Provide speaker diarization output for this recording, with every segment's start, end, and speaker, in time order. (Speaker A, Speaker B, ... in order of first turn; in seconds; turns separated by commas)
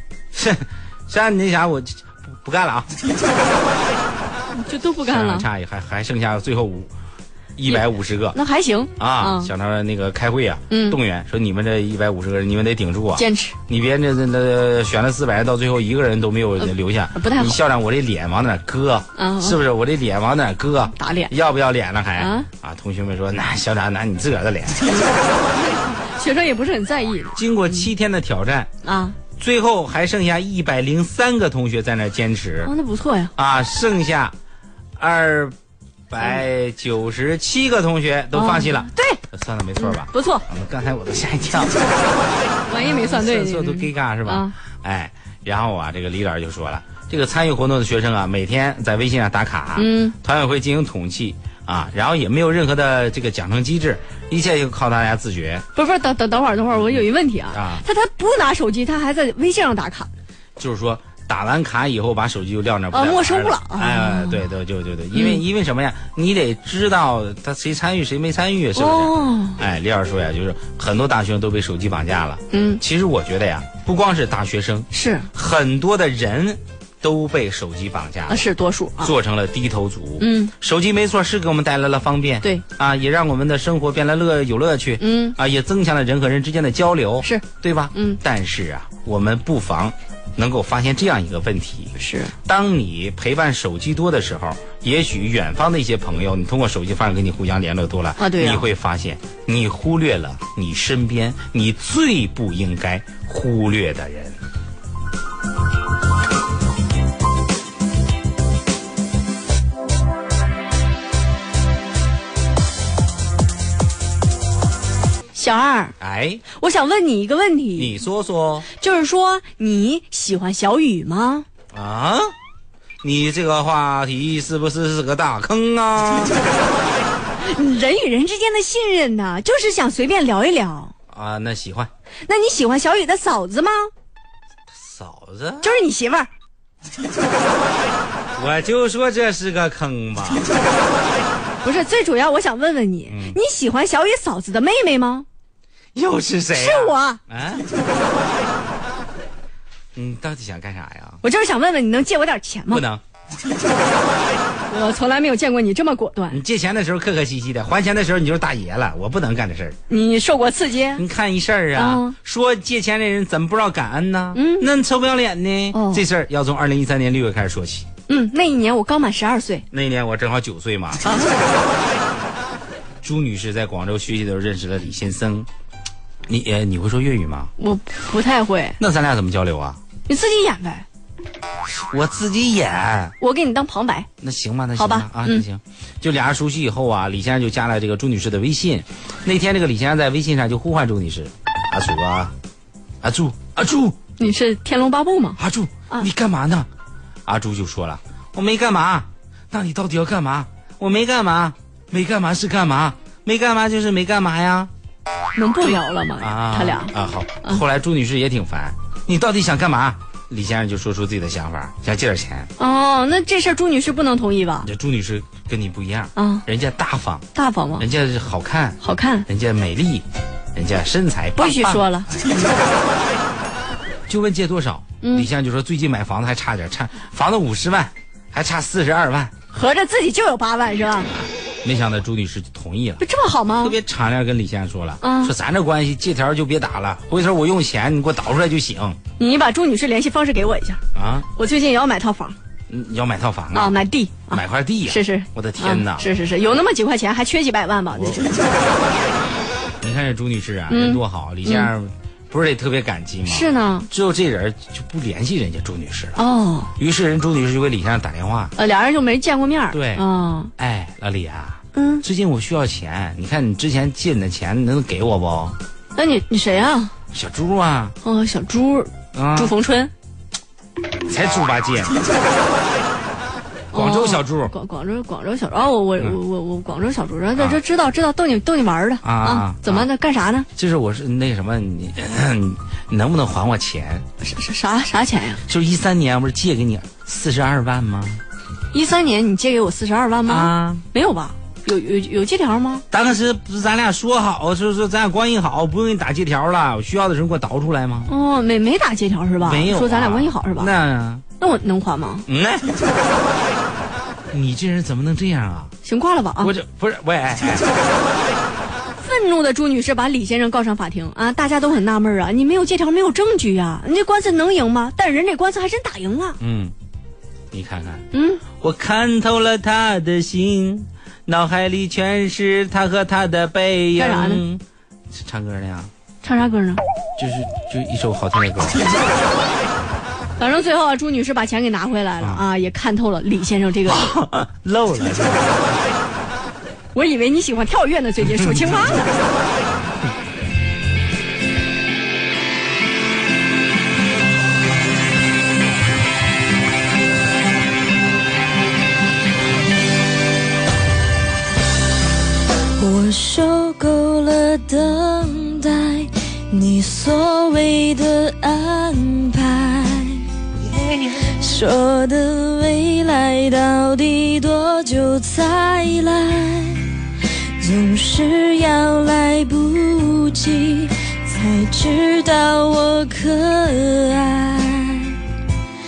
Speaker A: 0.3-2.9, Speaker B: 4.5-5.5, Speaker A: 5.1-6.9, Speaker A: 7.5-8.4, Speaker B: 7.7-9.5, Speaker A: 9.0-24.9, Speaker B: 10.7-11.0, Speaker B: 13.2-13.6, Speaker B: 17.1-17.6, Speaker B: 19.1-19.6, Speaker B: 21.0-21.3, Speaker B: 22.2-22.5, Speaker B: 24.8-27.9, Speaker A: 27.4-28.7, Speaker B: 28.8-29.2, Speaker A: 29.4-32.7, Speaker B: 32.6-33.3, Speaker A: 33.4-34.3, Speaker A: 35.0-35.5, Speaker A: 36.1-41.8, Speaker B: 38.3-39.2, Speaker B: 39.8-40.4, Speaker B: 42.6-44.5, Speaker A: 42.8-55.6, Speaker B: 49.8-50.1, Speaker B: 55.7-60.1, Speaker A: 56.7-57.8, Speaker A: 60.6-78.5, Speaker B: 62.9-64.4, Speaker B: 65.1-65.4, Speaker B: 68.8-69.6, Speaker B: 72.5-72.8, Speaker B: 74.9-75.3, Speaker B: 78.3-79.1, Speaker A: 79.0-104.3, Speaker B: 80.2-80.5, Speaker B: 85.0-85.4, Speaker B: 87.2-88.2, Speaker B: 92.0-92.3, Speaker B: 98.2-98.7, Speaker B: 115.3-116.0, Speaker A: 116.0-116.4, Speaker B: 116.5-118.0, Speaker A: 117.8-118.7, Speaker B: 118.7-121.5, Speaker A: 121.7-122.3, Speaker A: 123.0-126.4, Speaker B: 127.4-130.9, Speaker A: 131.1-131.9, Speaker B: 132.3-133.9, Speaker A: 134.7-135.8, Speaker B: 135.6-136.3, Speaker A: 138.3-140.5, Speaker B: 141.6-145.2, Speaker A: 143.1-143.4, Speaker A: 145.9-147.7, Speaker B: 146.5-147.2, Speaker A: 149.9-151.2, Speaker B: 151.2-152.8, Speaker A: 152.7-153.0, Speaker B: 154.7-156.4, Speaker A: 156.3-159.8, Speaker B: 159.9-161.0, Speaker A: 160.9-167.8, Speaker B: 161.7-162.1, Speaker B: 164.3-164.7, Speaker B: 165.7-166.0, Speaker B: 168.1-169.7, Speaker A: 169.7-171.0, Speaker B: 171.0-171.4, Speaker A: 173.0-175.5, Speaker A: 176.3-177.5, Speaker B: 177.6-178.8, Speaker A: 178.8-179.8, Speaker B: 180.1-180.8, Speaker A: 181.9-183.1, Speaker B: 183.2-184.1, Speaker A: 184.2-192.3, Speaker B: 184.8-185.4, Speaker A: 193.0-194.0, Speaker B: 194.2-195.4, Speaker A: 195.4-196.7, Speaker A: 197.2-204.7, Speaker B: 205.3-206.9, Speaker A: 205.6-212.5, Speaker B: 212.6-214.7, Speaker A: 214.6-217.2, Speaker B: 216.2-216.4, Speaker B: 217.3-217.8, Speaker A: 217.8-222.0, Speaker B: 218.8-219.3, Speaker B: 221.4-222.5, Speaker A: 224.1-229.3, Speaker B: 225.0-225.3, Speaker B: 229.5-231.1, Speaker A: 231.6-233.0, Speaker B: 233.0-233.8, Speaker A: 233.6-239.0, Speaker B: 235.0-235.3, Speaker B: 239.2-240.8, Speaker A: 240.9-241.3, Speaker B: 241.3-242.3, Speaker A: 242.7-243.8, Speaker B: 243.5-248.4, Speaker A: 244.3-246.1, Speaker A: 247.9-248.4, Speaker A: 249.8-256.2, Speaker B: 250.7-251.7, Speaker B: 253.2-253.9, Speaker B: 256.1-256.7, Speaker A: 256.8-258.5, Speaker B: 258.6-260.5, Speaker A: 259.7-260.1, Speaker A: 260.6-265.6, Speaker B: 261.7-262.0, Speaker B: 265.9-266.9, Speaker A: 267.1-268.0, Speaker B: 268.0-269.9, Speaker A: 269.1-269.5, Speaker A: 270.9-272.0, Speaker B: 273.7-280.5, Speaker A: 273.7-274.5, Speaker A: 279.0-279.9, Speaker A: 280.5-284.0, Speaker B: 284.2-285.4, Speaker A: 285.4-288.2, Speaker B: 288.7-292.8, Speaker A: 290.2-290.8, Speaker A: 292.9-298.1, Speaker B: 298.1-300.7, Speaker A: 299.4-301.2, Speaker B: 301.4-302.2, Speaker A: 302.3-302.7, Speaker A: 304.3-305.7, Speaker B: 305.8-306.5, Speaker A: 306.4-307.7, Speaker B: 309.0-316.4, Speaker A: 316.4-316.7, Speaker A: 317.5-325.9, Speaker B: 318.1-318.4, Speaker B: 323.9-324.4, Speaker B: 326.2-326.8, Speaker A: 327.2-328.8, Speaker B: 330.4-334.1, Speaker A: 333.9-335.8, Speaker B: 336.9-339.1, Speaker A: 338.2-338.9, Speaker C: 352.8-360.3, Speaker C: 360.9-375.2